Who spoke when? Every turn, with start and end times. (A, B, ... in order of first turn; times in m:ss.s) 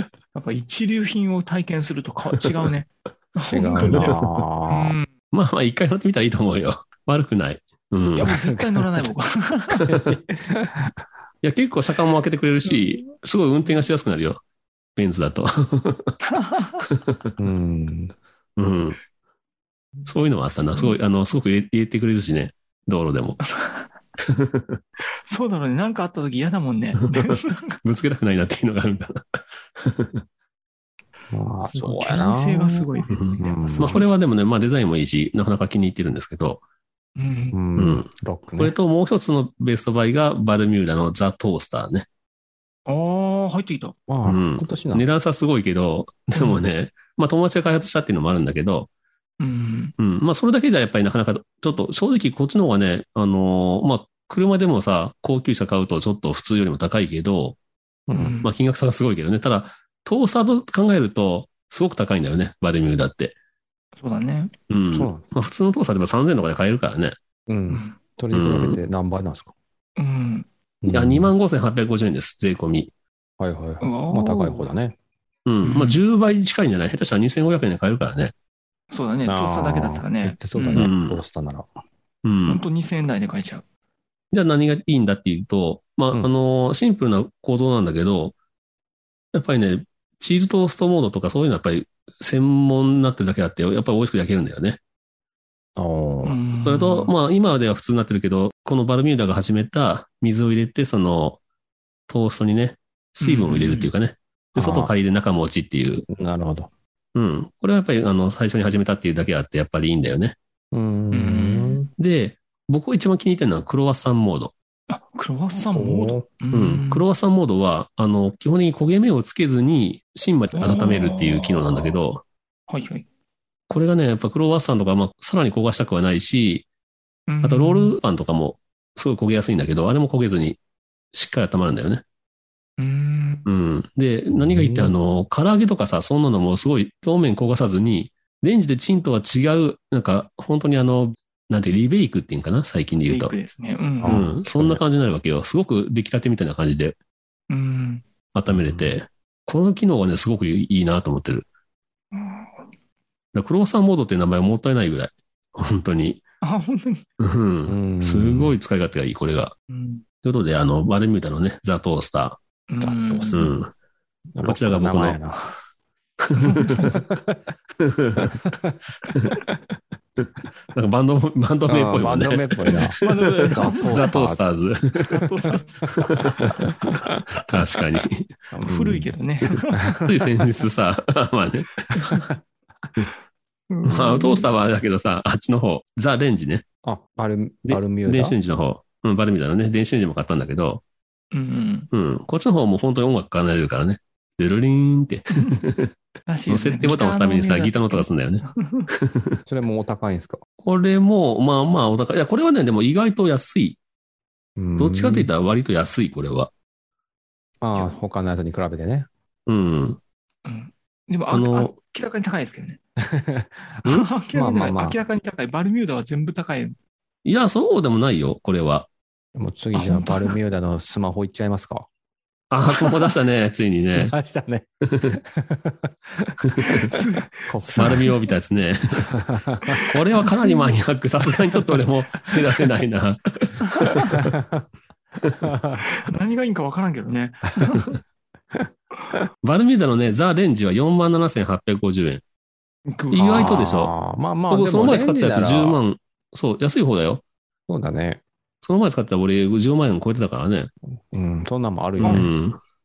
0:00.3-0:05.1 A
0:03.5-0:05.0 B
0:05.3-0:08.3 C
0:08.2-0:09.9 A
0:08.2-0:08.8 B
0:09.8-0:11.0 B
0:09.9-0:10.2 C
0:11.4-0:14.4 C
0:15.0-0:16.2 C
0:16.2-0:16.8 A
0:16.8-0:17.3 C
0:17.4-0:18.1 B
0:18.6-0:19.0 C
0:20.0-0:23.4 C
0:20.5-0:21.0 A
0:23.5-0:23.9 A
0:24.2-0:24.8 C
0:25.3-0:27.8 A
0:27.8-0:30.2 C
0:31.3-0:34.0 B
0:31.6-0:34.1 A
0:33.1-0:36.6 C
0:37.2-0:37.6 A
0:37.5-0:38.8 B
0:37.8-0:42.0 C
0:42.9-0:44.0 A
0:44.1-0:45.0 B
0:44.2-0:48.9 C
0:46.3-0:46.6 A
0:49.4-0:49.9 A
0:50.0-0:57.6 C
0:58.1-0:58.4 B
0:58.1-0:58.5 A
0:58.4-1:03.4 C
1:04.0-1:04.5 A
1:04.7-1:07.2 C
1:04.9-1:05.2 B
1:07.5-1:09.5 B
1:07.7-1:08.0 A
1:08.3-1:08.8 C
1:10.0-1:10.5 A
1:10.8-1:11.3 B
1:10.9-1:12.9 C
1:13.4-1:15.0 B
1:13.8-1:14.7 A
1:15.4-1:18.3 C
1:15.6-1:16.0 A
1:18.9-1:20.9 A
1:19.2-1:21.7 B
1:20.7-1:21.2 C
1:22.2-1:22.6 C
1:22.5-1:23.6 A
1:24.3-1:28.4 C
1:29.3-1:34.8 C
1:35.8-1:36.4 B
1:36.2-1:37.1 A
1:36.6-1:41.4 C
1:42.1-1:46.0 C
1:43.2-1:43.9 A
1:44.6-1:44.9 B
1:46.1-1:46.7 B
1:47.1-1:50.4 C
1:50.7-1:51.9 B
1:51.1-1:51.9 A
1:52.0-1:54.5 C
1:54.9-1:57.0 A
1:55.7-1:56.2 B
1:56.5-2:02.2 C
2:00.5-2:01.9 A
2:02.7-2:03.0 A
2:03.7-2:06.7 C
2:07.3-2:08.0 A
2:07.4-2:10.6 C
2:11.1-2:12.0 C
2:12.8-2:13.5 A
2:13.4-2:23.3 C
2:14.3-2:14.9 B
2:23.1-2:24.2 A
2:24.0-2:24.8 B
2:24.0-2:27.0 C
2:27.5-2:28.0 A
2:28.3-2:31.5 C
2:28.5-2:28.9 B
2:32.1-2:32.6 A
2:33.3-2:36.2 C
2:36.4-2:37.0 A
2:37.2-2:39.5 C
2:37.7-2:38.6 B
2:39.7-2:40.0 A
2:40.2-2:42.4 C
2:42.7-2:43.4 A
2:42.8-2:43.5 B
2:43.3-2:43.7 C
2:44.3-2:45.6 B
2:44.4-2:45.2 C
2:46.2-2:47.0 C
2:46.4-2:47.0 A
2:46.8-2:47.4 B
2:47.8-2:48.4 C
2:48.4-2:48.7 B
2:50.7-2:55.3 C
2:51.7-2:53.0 B
2:53.0-2:54.2 A
2:53.5-2:54.6 B
2:55.0-2:57.1 A
2:56.0-2:56.6 C
2:57.5-2:58.3 C
2:58.5-2:59.1 B
2:58.6-3:00.0 A
2:59.8-3:00.1 B
3:00.0-3:01.9 C
3:02.0-3:02.2 A
3:03.7-3:04.5 A
3:03.8-3:06.6 C
3:06.8-3:08.4 B
3:07.6-3:10.8 C
3:11.3-3:11.9 A
3:11.9-3:15.9 C
3:16.3-3:18.9 A
3:16.5-3:19.4 C
3:19.4-3:20.4 B
3:20.6-3:23.8 C
3:24.6-3:25.3 B
3:24.8-3:26.5 C
3:27.6-3:29.1 B
3:29.5-3:30.0 C
3:30.4-3:32.8 A
3:31.3-3:31.7 C
3:33.0-3:35.0 B
3:33.8-3:36.7 A
3:37.2-3:38.9 C
3:39.3-3:41.9 B
3:39.7-3:40.4 A
3:42.5-3:44.1 C
3:44.0-3:48.1 B
3:44.9-3:45.2 C
3:46.6-3:48.1 A
3:47.8-3:49.1 C
3:49.0-3:49.8 B
3:49.8-3:54.3 C
3:50.4-3:50.7 A
3:53.7-3:54.1 A
3:54.1-3:54.6 B
3:55.2-3:55.5 C
3:55.4-3:55.8 B
3:55.8-3:58.0 A
3:58.5-3:59.2 B
3:59.4-4:02.2 C
4:02.9-4:03.7 A
4:03.1-4:03.9 C
4:03.2-4:05.8 B
4:04.5-4:07.2 C
4:07.7-4:08.2 B
4:08.6-4:10.7 C
4:11.1-4:12.3 B
4:12.0-4:12.6 C
4:12.0-4:12.3 A